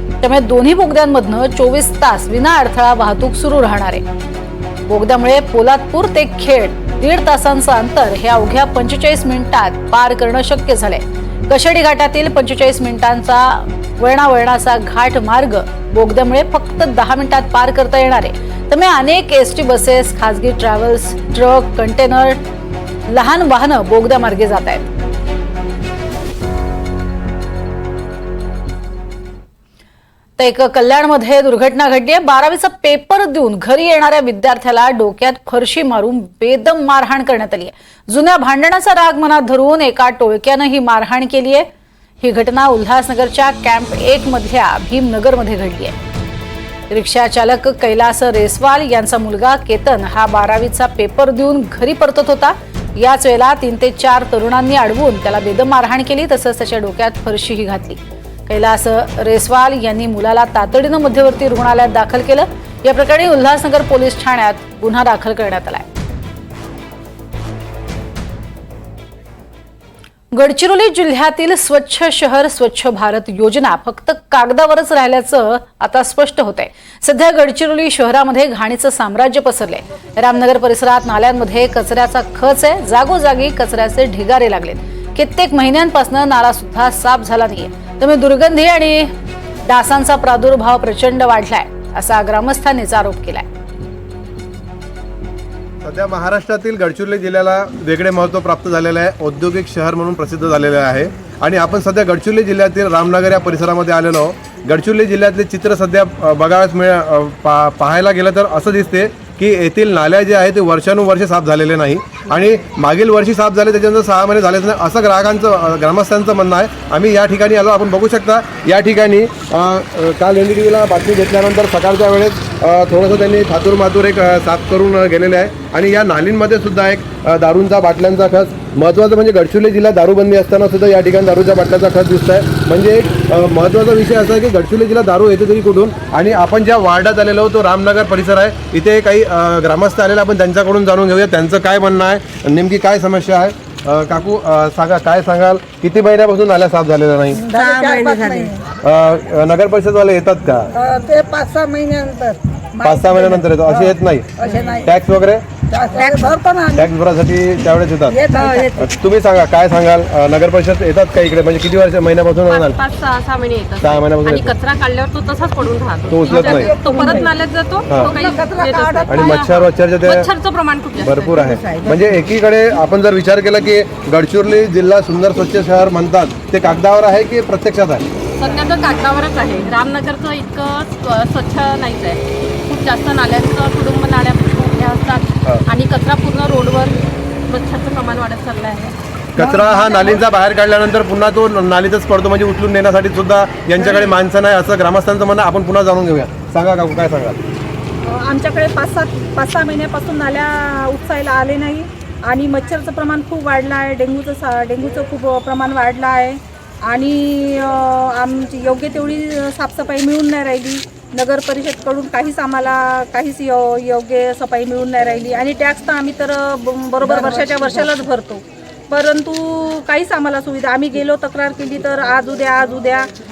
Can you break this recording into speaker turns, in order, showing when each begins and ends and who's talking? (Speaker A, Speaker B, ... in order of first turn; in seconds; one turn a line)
Speaker A: 0.2-4.0
Speaker A: 4.9-22.4
Speaker A: 23.1-24.9
Speaker A: 30.4-41.7
Speaker A: 42.2-46.0
Speaker A: 46.9-65.8
Speaker A: 70.3-89.1
Speaker A: 89.6-93.5
Speaker B: 95.8-147.5
Speaker C: 147.3-148.6
Speaker B: 148.8-150.7
Speaker C: 150.8-153.7
Speaker B: 152.8-155.4
Speaker C: 154.4-154.9
Speaker C: 155.7-156.8
Speaker B: 156.7-162.8
Speaker C: 158.1-158.8
Speaker D: 162.4-171.3
Speaker B: 163.8-164.5
Speaker B: 166.1-166.8
Speaker B: 167.9-168.2
Speaker C: 168.4-168.8
Speaker B: 169.1-170.3
Speaker B: 171.0-178.0
Speaker D: 178.4-188.9
Speaker B: 189.3-197.4
Speaker E: 198.0-223.1